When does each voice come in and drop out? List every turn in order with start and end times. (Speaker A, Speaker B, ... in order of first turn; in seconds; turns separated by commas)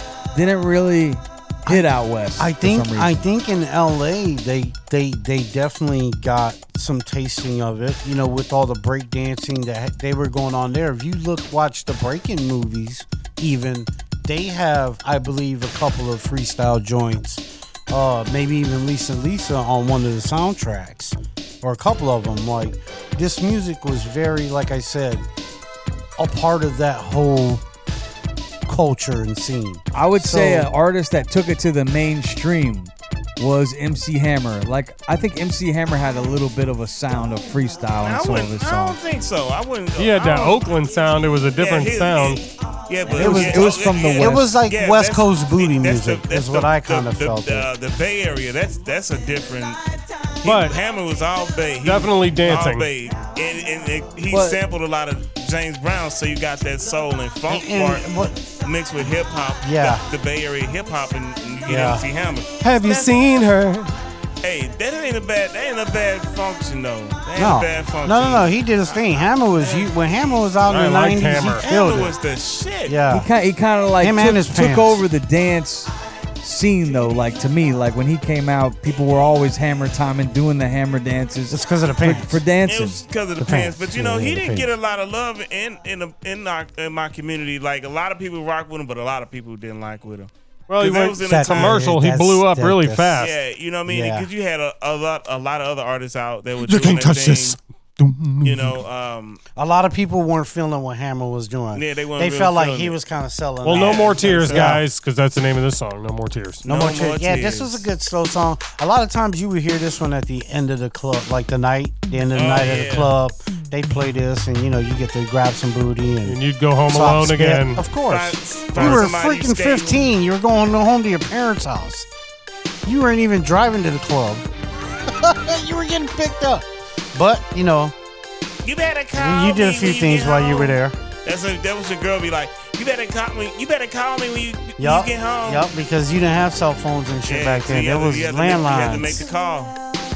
Speaker A: 0.3-3.3, Speaker B: 2.4-25.3, Speaker B: 26.2-27.6, Speaker B: 28.7-30.7, Speaker A: 29.9-39.0, Speaker C: 38.0-40.8, Speaker D: 40.0-42.4, Speaker C: 41.6-49.8, Speaker A: 43.1-44.5, Speaker B: 43.1-47.7, Speaker D: 50.4-50.8, Speaker C: 50.4-63.1, Speaker D: 51.8-52.9, Speaker A: 54.3-54.6, Speaker B: 57.5-58.4, Speaker B: 59.6-60.0, Speaker B: 61.7-62.1, Speaker D: 62.6-63.9, Speaker C: 64.4-69.9, Speaker B: 67.4-72.1, Speaker D: 70.7-71.6, Speaker C: 71.6-73.0, Speaker B: 72.9-73.3, Speaker A: 73.1-83.0, Speaker B: 74.0-75.0, Speaker B: 81.5-82.4, Speaker C: 82.7-91.8, Speaker B: 83.4-84.7, Speaker D: 90.7-93.3, Speaker B: 91.2-93.2, Speaker C: 93.2-97.6, Speaker B: 93.9-94.3, Speaker D: 96.7-98.8, Speaker C: 98.4-99.4, Speaker B: 99.6-104.8, Speaker C: 101.7-103.0, Speaker D: 103.6-106.6, Speaker C: 103.7-104.8, Speaker C: 106.6-107.9, Speaker B: 106.7-122.1, Speaker C: 112.3-113.1, Speaker D: 116.2-117.8, Speaker C: 118.1-120.1, Speaker B: 122.9-124.5, Speaker B: 125.1-127.9, Speaker C: 128.6-135.7, Speaker B: 129.2-131.0, Speaker B: 134.8-139.3, Speaker C: 137.3-139.8